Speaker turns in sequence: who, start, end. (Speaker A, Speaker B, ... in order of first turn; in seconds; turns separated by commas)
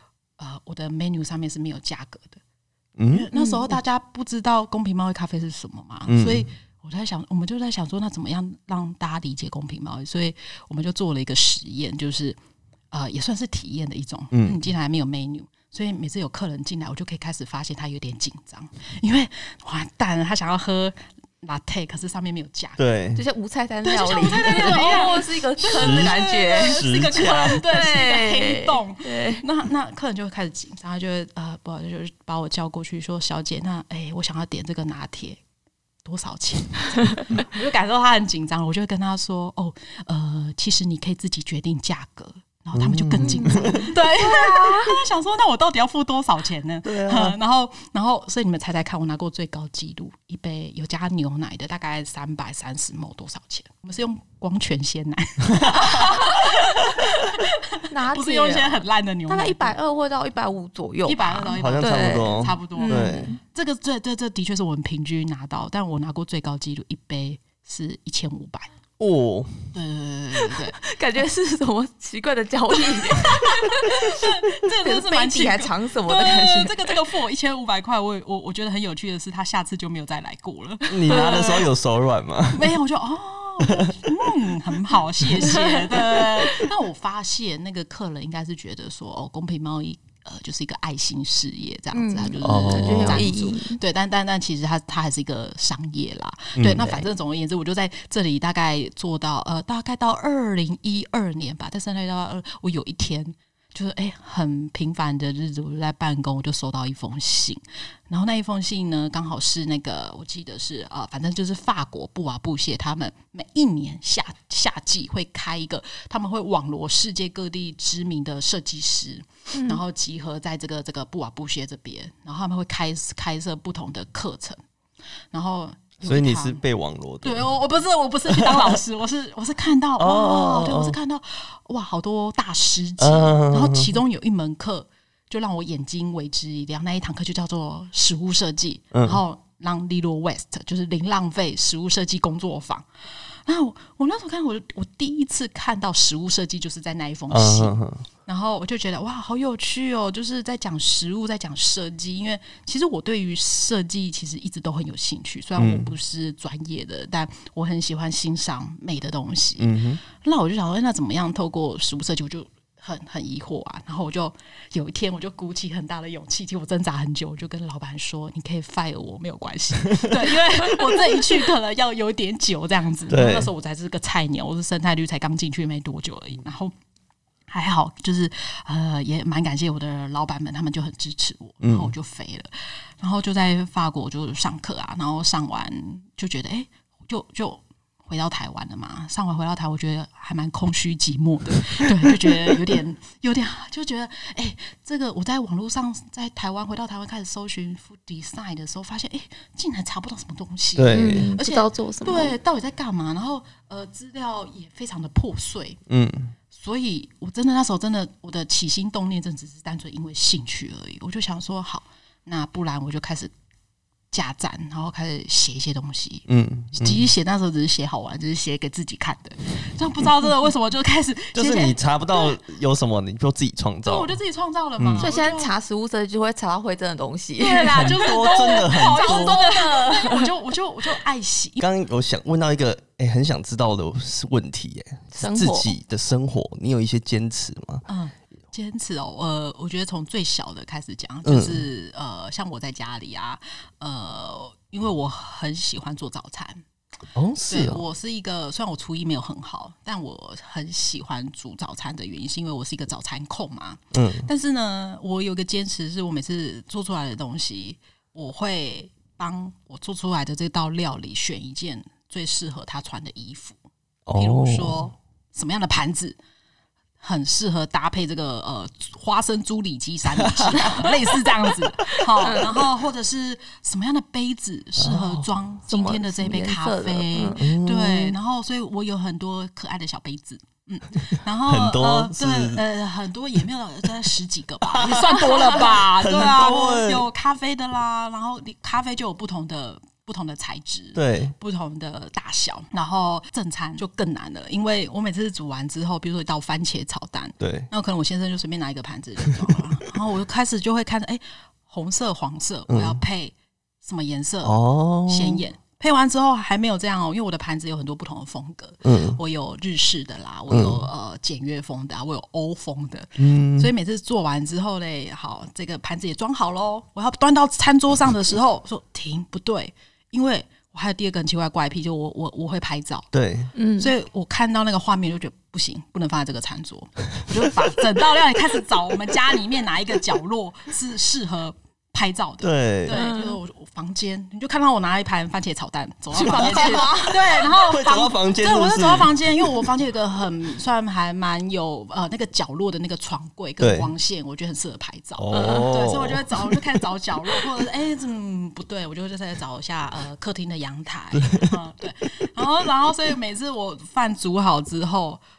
Speaker A: 0.4-2.4, Speaker B: 3.0-3.2, Speaker A: 3.1-12.4, Speaker C: 3.3-3.8, Speaker B: 6.1-6.5, Speaker A: 12.9-22.8, Speaker B: 14.3-14.6, Speaker B: 22.8-23.2, Speaker C: 23.1-29.4, Speaker A: 23.9-35.4, Speaker B: 24.6-24.9, Speaker B: 25.6-27.6, Speaker A: 36.0-59.8, Speaker B: 42.7-43.9, Speaker C: 43.2-45.0, Speaker B: 46.9-47.4, Speaker B: 55.6-55.9, Speaker C: 56.0-56.4, Speaker C: 57.9-63.4, Speaker A: 61.0-68.7, Speaker B: 61.5-63.4, Speaker B: 69.0-69.8, Speaker A: 69.7-70.8, Speaker C: 70.9-77.0, Speaker A: 72.7-81.7, Speaker B: 80.9-82.8, Speaker C: 81.1-81.6, Speaker A: 82.5-124.6, Speaker B: 83.6-84.2, Speaker C: 85.5-86.6, Speaker C: 91.9-93.8, Speaker B: 92.4-93.2, Speaker B: 96.5-97.0, Speaker C: 119.5-119.8, Speaker A: 125.3-126.6, Speaker B: 126.0-127.6, Speaker A: 127.2-147.7, Speaker B: 128.3-128.7, Speaker B: 130.0-131.0, Speaker B: 133.0-134.0, Speaker B: 138.9-139.2, Speaker B: 147.3-148.1, Speaker A: 148.2-176.7, Speaker B: 155.6-155.9, Speaker B: 159.6-160.0, Speaker B: 169.9-171.0, Speaker B: 173.1-173.5, Speaker A: 177.5-205.8, Speaker B: 181.6-181.9, Speaker B: 191.8-192.6, Speaker B: 200.8-201.3, Speaker C: 200.9-202.3, Speaker B: 205.9-206.3, Speaker A: 206.5-213.3, Speaker A: 214.1-222.3, Speaker B: 216.3-217.1, Speaker B: 221.3-224.1, Speaker A: 223.8-225.5, Speaker B: 224.8-225.1, Speaker C: 225.0-230.3, Speaker A: 227.4-231.6, Speaker B: 227.7-229.4, Speaker B: 231.6-237.8, Speaker C: 235.2-235.7, Speaker A: 237.9-246.6, Speaker B: 241.2-241.7, Speaker B: 247.1-247.8, Speaker A: 247.5-263.6, Speaker B: 253.9-254.3, Speaker B: 264.1-264.9, Speaker A: 264.1-266.1, Speaker A: 267.0-323.1, Speaker B: 270.1-271.1, Speaker C: 272.2-272.5, Speaker B: 274.8-275.2, Speaker C: 275.7-277.4, Speaker B: 277.4-278.2, Speaker B: 281.0-282.6, Speaker B: 284.6-287.1, Speaker B: 290.9-291.4, Speaker B: 297.4-297.7, Speaker B: 302.7-303.0, Speaker B: 304.4-305.4, Speaker B: 308.8-309.2, Speaker B: 310.5-310.9, Speaker B: 313.2-313.7, Speaker B: 323.1-323.5, Speaker C: 323.5-323.9, Speaker A: 323.8-355.2, Speaker B: 332.4-333.0, Speaker C: 332.9-333.4, Speaker C: 336.1-337.3, Speaker B: 337.3-339.7, Speaker B: 343.6-343.9, Speaker B: 345.2-346.6, Speaker C: 345.3-345.7, Speaker B: 351.1-351.6